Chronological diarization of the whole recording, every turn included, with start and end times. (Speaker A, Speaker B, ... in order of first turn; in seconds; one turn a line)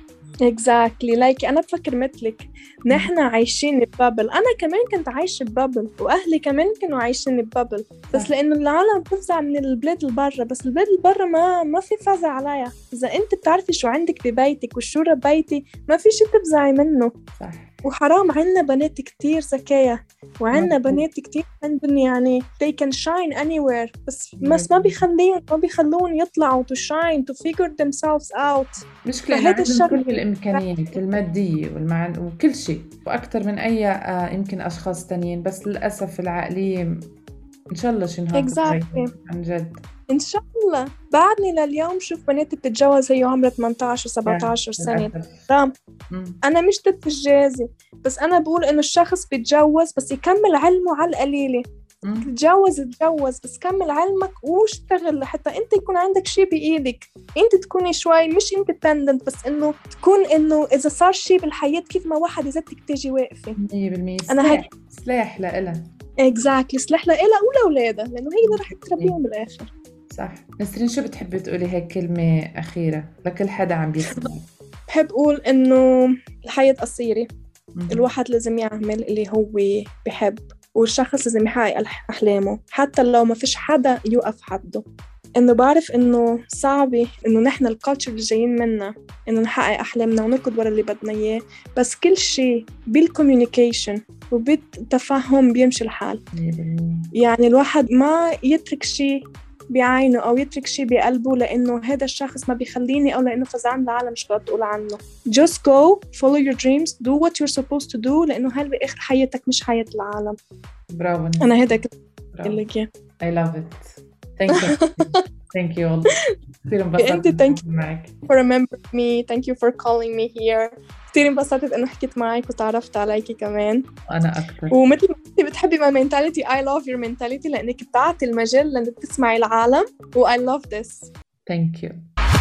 Speaker A: 0.5-17.1
Speaker B: 17.4-17.7
Speaker A: 17.8-30.0
Speaker B: 20.5-21.0
Speaker B: 24.4-25.0
Speaker B: 29.1-37.1
Speaker B: 37.7-39.8
Speaker A: 38.3-39.1
Speaker A: 40.1-45.7
Speaker B: 44.3-45.4
Speaker B: 46.1-46.4
Speaker A: 46.4-51.6
Speaker B: 52.0-52.3
Speaker A: 52.2-63.6
Speaker B: 63.6-65.8
Speaker A: 64.3-64.7
Speaker A: 66.2-69.7
Speaker B: 68.4-69.2
Speaker B: 70.1-74.5
Speaker A: 74.9-77.3
Speaker B: 77.8-78.1
Speaker A: 77.9-84.8
Speaker A: 85.4-96.2
Speaker B: 96.3-97.1
Speaker A: 97.2-110.4
Speaker B: 110.9-111.8
Speaker A: 111.4-111.9
Speaker B: 112.3-112.6
Speaker A: 112.4-112.9
Speaker B: 113.2-116.1
Speaker A: 114.5-115.2
Speaker B: 116.7-118.2
Speaker A: 117.0-117.6
Speaker A: 118.3-123.8
Speaker B: 124.1-124.8
Speaker A: 124.7-131.1
Speaker B: 131.5-132.0